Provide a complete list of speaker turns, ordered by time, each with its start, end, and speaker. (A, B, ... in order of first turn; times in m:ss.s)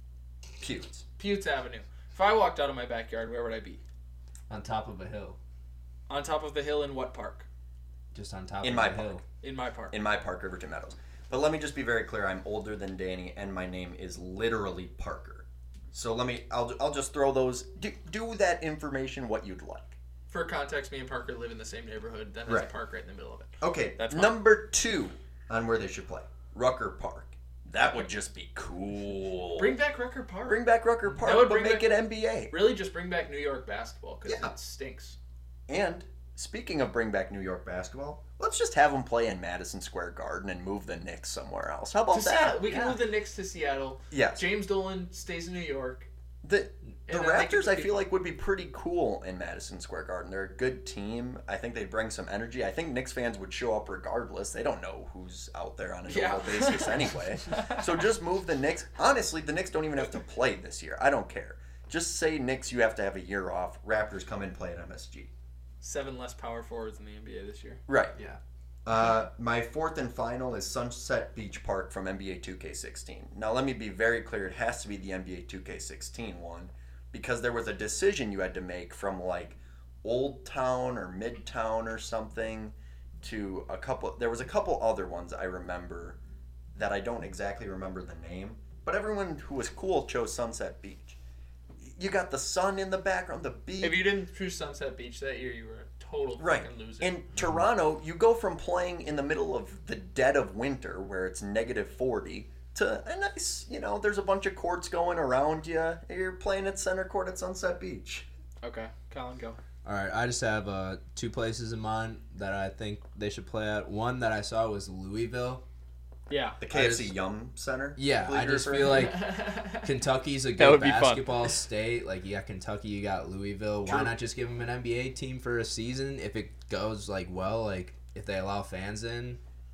0:00.6-0:01.0 A
0:01.2-0:03.8 B
0:04.5-0:05.4 C
0:06.1-0:07.5 B
0:08.1-0:09.2 C
0:08.6-0:09.2 A
0:09.4-0:10.0 B
0:09.9-0:20.0 A
0:20.3-0:24.4 B
0:22.4-0:22.7 A
0:23.6-0:29.8 A
0:29.6-0:32.0 B
0:30.5-0:32.6 A
0:32.5-0:35.2 B
0:34.2-0:34.5 A
0:35.7-0:43.0 A
0:42.1-0:46.1 B
0:44.1-0:44.4 A
0:46.4-1:05.3 A
0:47.1-0:48.0 B
0:56.1-0:57.9 B
1:05.8-1:07.8 B
1:07.9-1:08.1 A
1:08.8-1:26.2 A
1:26.7-1:31.2 A
1:31.8-1:34.0 A
1:33.8-1:37.2 B
1:36.4-1:48.3 A
1:48.6-1:49.6 B
1:49.8-1:55.6 C
1:56.3-1:56.6 B
1:56.6-1:59.1 A
1:56.7-1:57.1 C
1:58.0-2:09.4 C
1:58.8-1:59.9 B
2:00.6-2:01.5 B
2:03.8-2:04.1 A